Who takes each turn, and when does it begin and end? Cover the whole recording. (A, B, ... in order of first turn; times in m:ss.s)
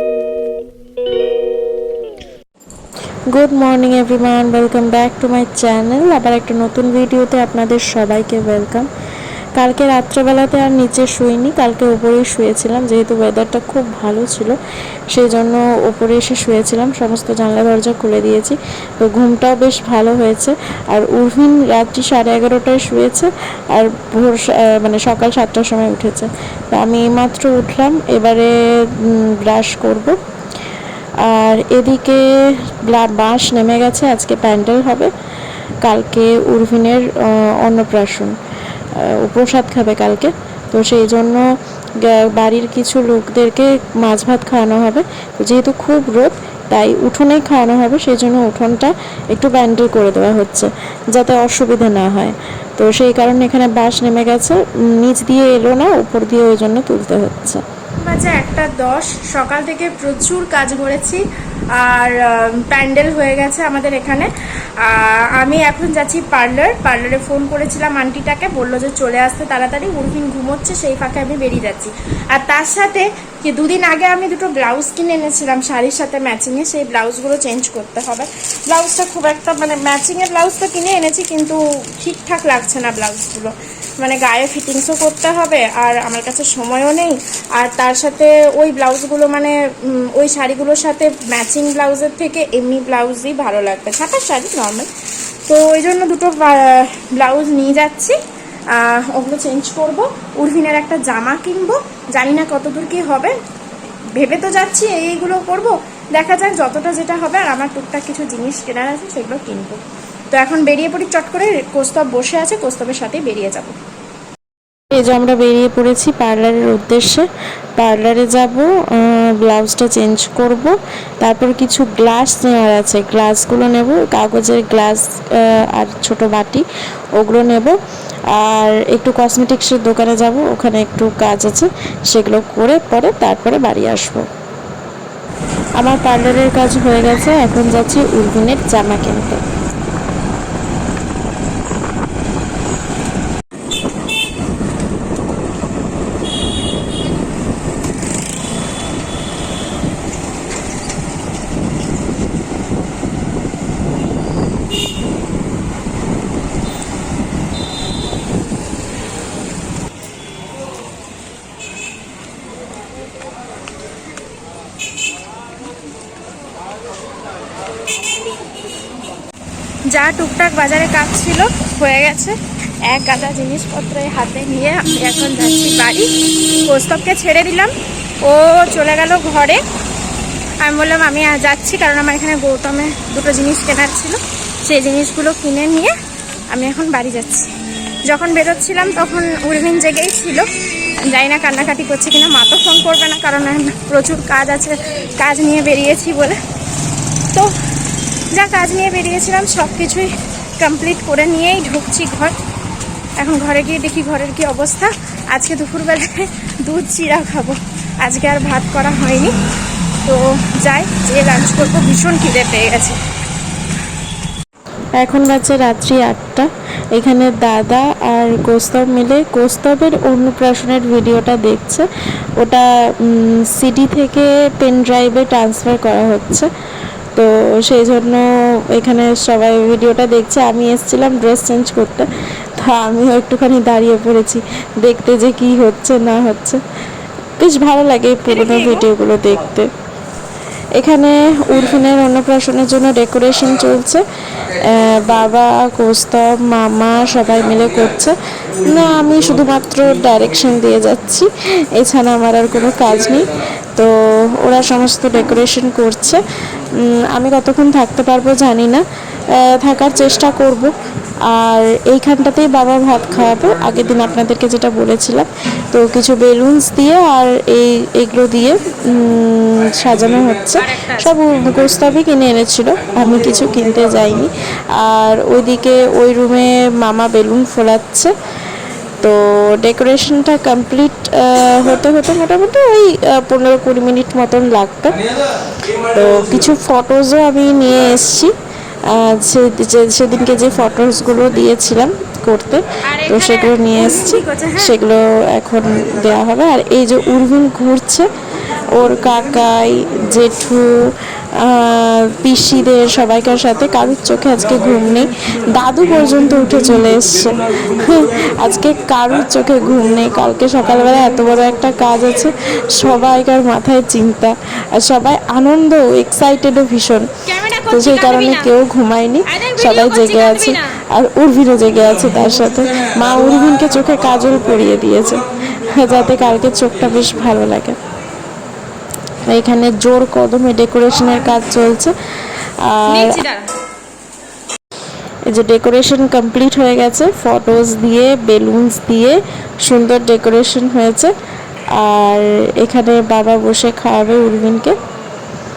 0:03.3-0:08.9 A
0:09.6-0:14.6 A
0:15.1-0:30.2 A
0:31.2-0:35.1 A
0:35.8-0:38.4 A
0:39.0-0:41.4 A
0:42.0-0:57.6 A
0:58.1-1:34.9 B
1:35.5-1:38.2 B
1:38.7-1:43.4 B
1:44.2-1:53.8 B
1:54.9-2:06.6 A
2:07.2-2:14.3 A
2:15.8-2:19.4 A
2:49.9-2:57.7 B
2:58.2-2:59.6 B
3:00.6-3:05.9 B
3:06.5-3:07.5 B
3:08.1-3:10.5 B
3:11.1-3:16.4 B
3:18.3-3:22.4 B
3:23.2-3:29.3 B
3:30.1-3:33.0 B
3:35.0-3:41.9 A
3:42.4-3:46.5 A
3:47.2-3:56.6 A
3:57.4-3:59.7 A
3:58.3-3:58.9 B
4:00.8-4:20.7 A
4:21.3-4:38.1 A
4:30.6-4:31.1 B
4:39.0-4:45.0 A
4:45.9-4:48.3 A
4:48.9-5:17.1 A
4:52.9-4:54.8 B
5:17.3-5:18.5 B
5:17.7-5:27.8 A
5:19.3-5:20.7 B
5:29.3-5:33.2 A
5:32.9-5:33.5 B
5:35.3-5:41.1 A
5:41.8-5:44.8 A